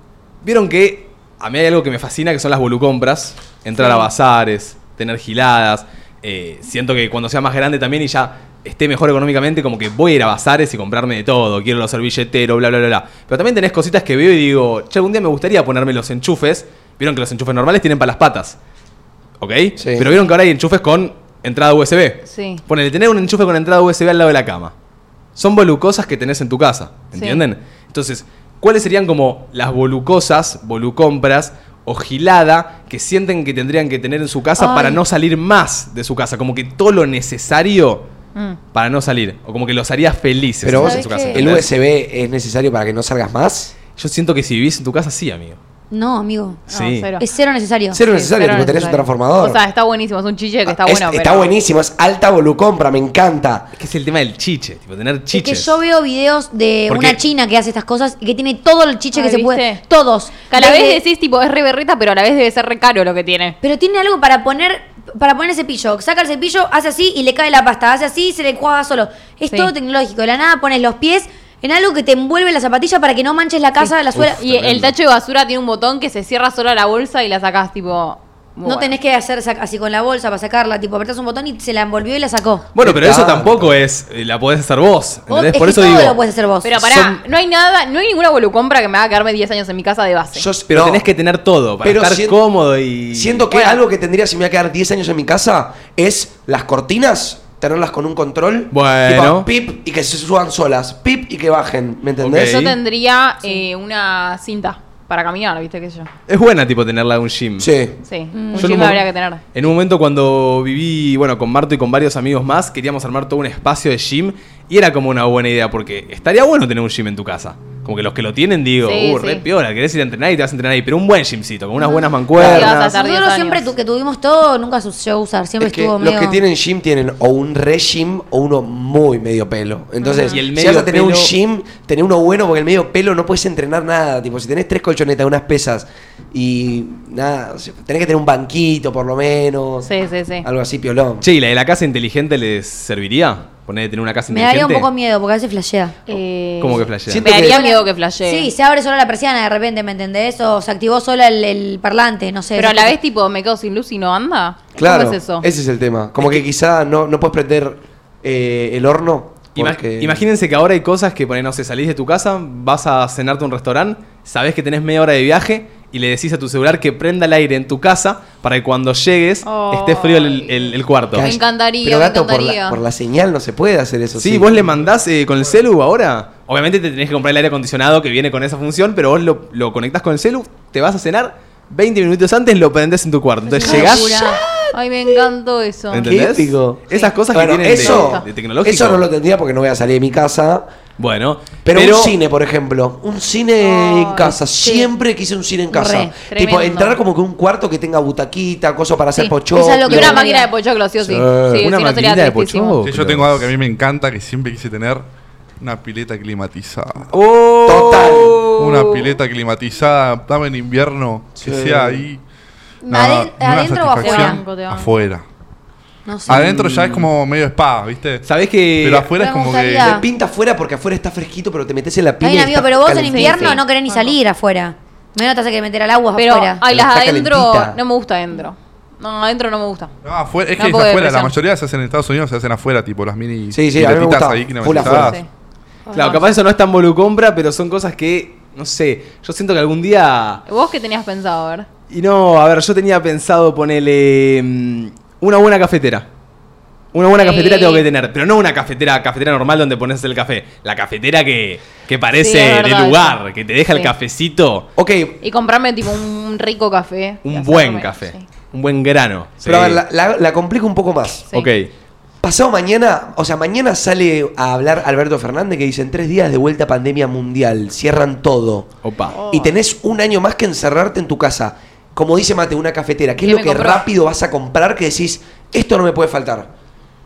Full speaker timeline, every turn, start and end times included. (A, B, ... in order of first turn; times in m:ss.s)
0:00.4-0:18.6 A
0:03.8-0:04.1 B
0:19.4-0:24.7 A
0:19.8-0:20.1 C
0:22.3-0:22.6 B
0:25.4-0:38.1 A
0:27.2-0:27.4 B
0:34.6-0:35.0 D
0:38.7-0:41.7 A
0:40.6-0:43.7 C
0:40.7-0:41.6 D
0:44.0-0:45.6 A
0:45.9-0:46.6 D
0:46.7-0:47.1 A
0:46.7-0:47.2 B
0:47.2-0:48.0 D
0:47.9-0:49.6 C
0:48.0-0:51.5 B
0:50.7-0:53.7 C
0:53.8-0:55.8 A
0:55.3-1:01.0 D
0:56.9-0:57.2 A
0:59.1-0:59.8 B
1:00.5-1:03.6 B
1:03.6-1:14.4 D
1:13.8-1:18.9 B
1:14.1-1:14.9 A
1:18.6-1:22.7 D
1:22.8-1:26.2 A
1:22.8-1:23.8 C
1:25.3-1:26.8 D
1:26.6-1:30.5 B
1:26.7-1:27.2 A
1:30.4-1:31.1 C
1:30.7-1:33.5 A
1:31.8-1:32.4 C
1:33.1-1:42.6 C
1:33.5-1:33.8 B
1:38.7-1:39.5 A
1:42.2-1:42.8 A
1:42.4-1:46.1 B
1:46.3-1:47.7 A
1:47.6-1:48.0 C
1:48.1-1:49.4 B
1:48.3-1:48.9 D
1:48.6-1:49.0 A
1:49.5-2:03.0 A
1:58.8-1:59.4 B
2:01.8-2:06.4 D
2:02.4-2:03.7 B
2:02.4-2:02.7 C
2:05.6-2:19.9 C
2:10.0-2:10.4 B
2:10.3-2:11.4 A
2:19.8-2:20.5 B
2:20.4-2:21.3 C
2:21.2-2:24.9 A
2:24.3-2:26.0 D
2:26.1-2:28.5 B
2:26.6-2:27.3 A
2:27.1-2:27.6 C
2:27.4-2:33.0 D
2:32.6-2:35.5 B
2:34.8-2:40.2 C
2:39.6-2:51.3 A
2:49.4-2:52.8 B
2:51.1-2:54.7 C
2:54.2-3:04.4 A
3:03.5-3:06.1 B
3:03.6-3:04.3 D
3:03.6-3:04.7 C
3:05.9-3:09.1 A
3:06.0-3:10.6 C
3:07.7-3:08.2 B
3:11.0-3:12.2 A
3:11.6-3:20.2 C
3:13.6-3:14.4 B
3:14.2-3:14.9 D
3:15.7-3:16.1 D
3:15.8-3:17.0 B
3:19.2-3:20.5 D
3:19.8-3:22.8 B
3:21.0-3:21.6 C
3:21.2-3:23.5 A
3:22.8-3:25.1 E
3:25.6-3:27.1 E
3:27.1-3:28.5 A
3:27.7-3:28.6 C
3:28.2-3:29.1 B
3:28.5-3:32.2 E
3:31.4-3:32.0 C
3:32.8-3:34.4 D
3:32.9-3:35.2 E
3:34.0-3:34.9 B
3:36.1-3:36.5 D
3:36.3-3:38.3 E
3:36.3-3:37.0 A
3:36.4-3:37.0 C
3:38.2-3:39.2 A
3:38.8-3:40.0 E
3:39.2-3:40.0 D
3:39.8-3:43.6 C
3:42.2-3:46.6 D
3:43.1-3:44.2 B
3:46.2-3:49.9 B
3:46.7-3:47.8 C
3:50.0-3:55.2 E
3:50.6-3:51.4 B
3:53.5-3:55.2 C
3:54.8-3:55.3 B
3:55.9-3:56.4 D
3:55.9-4:00.4 A
4:00.5-4:01.7 B
4:01.9-4:06.1 A
4:06.9-4:14.7 A
4:07.1-4:07.9 B
4:12.2-4:13.9 B
4:14.8-4:15.2 C
4:15.2-4:18.2 B
4:17.2-4:19.8 A
4:19.4-4:21.3 C
4:21.3-4:21.7 A
4:22.2-4:28.7 C
4:28.8-4:29.2 A
4:29.1-4:29.6 B
4:29.3-4:36.5 C
4:33.2-4:33.9 B